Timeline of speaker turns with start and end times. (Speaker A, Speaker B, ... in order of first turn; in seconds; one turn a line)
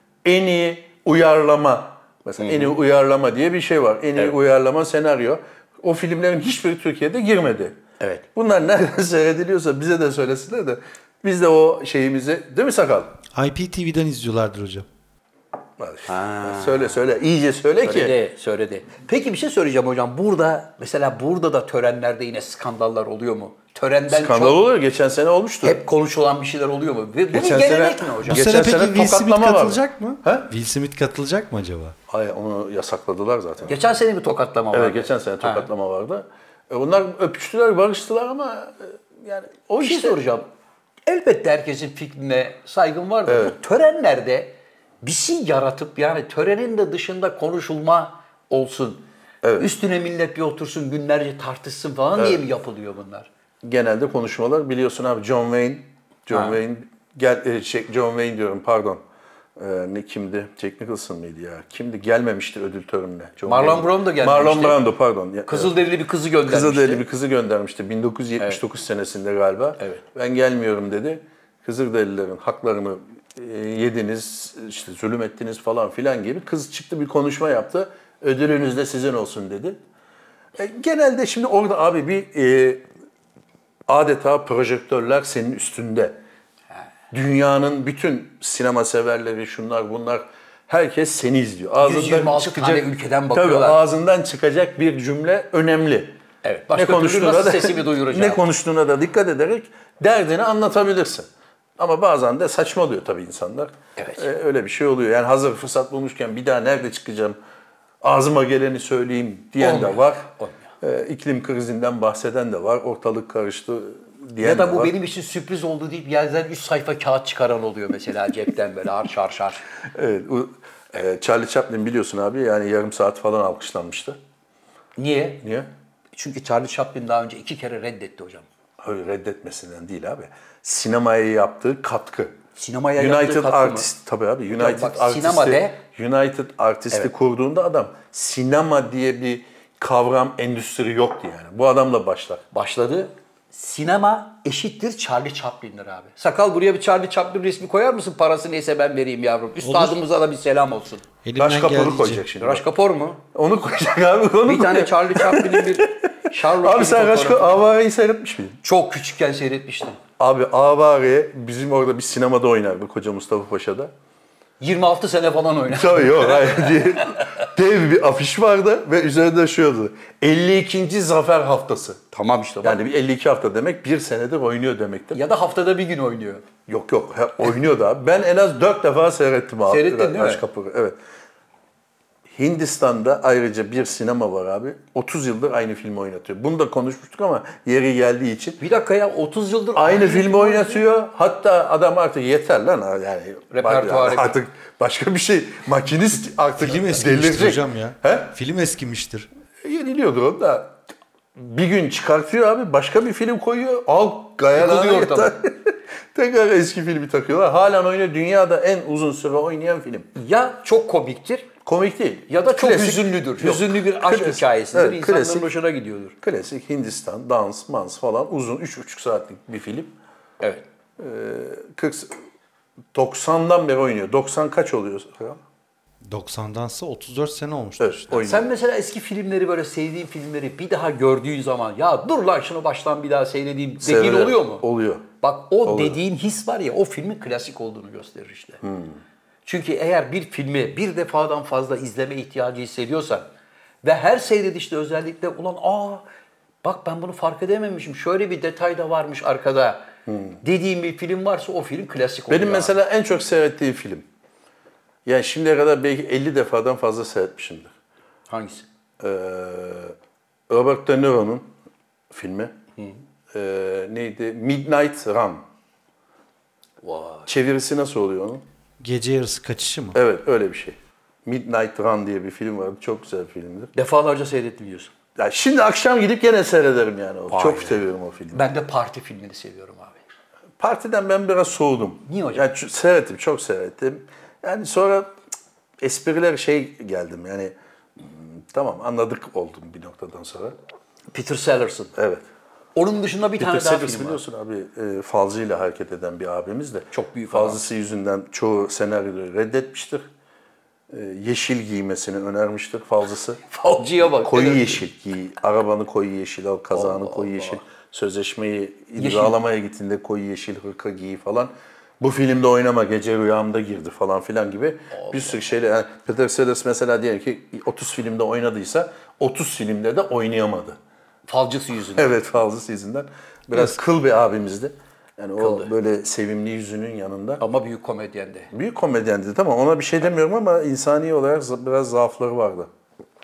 Speaker A: 0.2-7.8
Speaker B: 2.4-2.7
Speaker B: 8.0-8.2
Speaker A: 8.3-13.2
Speaker C: 13.3-14.8
Speaker A: 15.8-18.1
Speaker B: 16.1-16.9
Speaker B: 17.8-24.6
Speaker A: 24.1-25.8
Speaker B: 25.6-28.6
Speaker A: 27.3-30.5
Speaker C: 28.3-32.0
Speaker A: 32.1-33.8
Speaker B: 33.7-35.7
Speaker A: 34.7-40.2
Speaker B: 39.8-40.5
Speaker B: 41.1-49.1
Speaker A: 43.3-43.5
Speaker A: 49.4-49.7
Speaker B: 49.6-53.3
Speaker A: 52.2-52.4
Speaker A: 53.6-59.0
Speaker B: 56.3-56.6
Speaker A: 59.6-65.8
Speaker B: 63.5-64.8
Speaker B: 65.5-67.0
Speaker A: 66.5-79.8
Speaker A: 80.6-82.8
Speaker A: 83.9-86.2
Speaker A: 87.1-96.2
Speaker B: 91.8-93.8
Speaker B: 96.4-98.4
Speaker A: 96.7-101.3
Speaker A: 101.8-107.4
Speaker B: 104.0-104.3
Speaker A: 108.0-110.3
Speaker B: 109.6-110.6
Speaker A: 110.8-114.9
Speaker B: 114.4-119.6
Speaker A: 119.9-124.2
Speaker B: 125.0-125.4
Speaker A: 125.4-125.7
Speaker B: 126.1-128.5
Speaker A: 128.8-132.4
Speaker B: 132.6-133.9
Speaker A: 133.0-142.4
Speaker B: 134.5-135.8
Speaker B: 142.5-151.0
Speaker C: 149.6-150.0
Speaker C: 151.2-152.3
Speaker A: 151.4-152.7
Speaker B: 152.4-153.2
Speaker A: 153.3-158.6
Speaker B: 154.5-157.6
Speaker B: 158.6-160.0
Speaker A: 160.2-163.9
Speaker B: 164.6-166.9
Speaker A: 165.7-172.0
Speaker B: 172.1-172.8
Speaker A: 172.6-175.2
Speaker B: 175.1-176.4
Speaker A: 176.7-180.9
Speaker B: 179.7-180.4
Speaker A: 182.3-188.6
Speaker B: 188.6-190.8
Speaker A: 189.8-198.3
Speaker B: 193.5-194.3
Speaker C: 196.6-199.3
Speaker A: 199.6-200.8
Speaker A: 201.4-210.1
Speaker B: 204.5-205.3
Speaker B: 210.2-211.5
Speaker A: 211.7-215.5
Speaker B: 212.3-216.2
Speaker A: 216.2-219.9
Speaker A: 221.0-222.1
Speaker A: 222.9-225.4
Speaker C: 226.1-228.2
Speaker A: 227.8-228.5
Speaker B: 228.2-234.6
Speaker A: 233.8-235.1
Speaker B: 235.2-238.6
Speaker A: 235.7-236.0
Speaker A: 238.6-239.0
Speaker B: 239.4-243.3
Speaker B: 243.8-246.0
Speaker B: 246.6-249.9
Speaker A: 250.1-250.4
Speaker B: 250.4-252.8
Speaker A: 252.3-254.1
Speaker A: 255.1-257.7
Speaker B: 258.3-258.7
Speaker A: 259.0-259.9
Speaker A: 260.5-261.5
Speaker A: 262.1-262.5
Speaker A: 263.3-265.4
Speaker B: 266.8-267.3
Speaker A: 267.3-268.4
Speaker C: 268.8-270.0
Speaker A: 269.9-273.7
Speaker B: 273.8-274.9
Speaker A: 275.2-278.5
Speaker B: 277.3-280.0
Speaker A: 280.6-285.1
Speaker B: 282.1-282.5
Speaker A: 285.8-290.6
Speaker B: 291.1-291.9
Speaker A: 292.0-292.2
Speaker B: 292.8-294.2
Speaker A: 293.4-300.1
Speaker B: 296.9-297.6
Speaker A: 300.9-303.4
Speaker B: 303.5-304.8
Speaker A: 303.9-320.8
Speaker B: 306.7-307.6
Speaker B: 309.0-309.4
Speaker B: 314.9-315.4
Speaker B: 321.3-322.1
Speaker A: 322.0-327.4
Speaker B: 325.4-325.7
Speaker B: 327.4-328.5
Speaker A: 328.5-332.7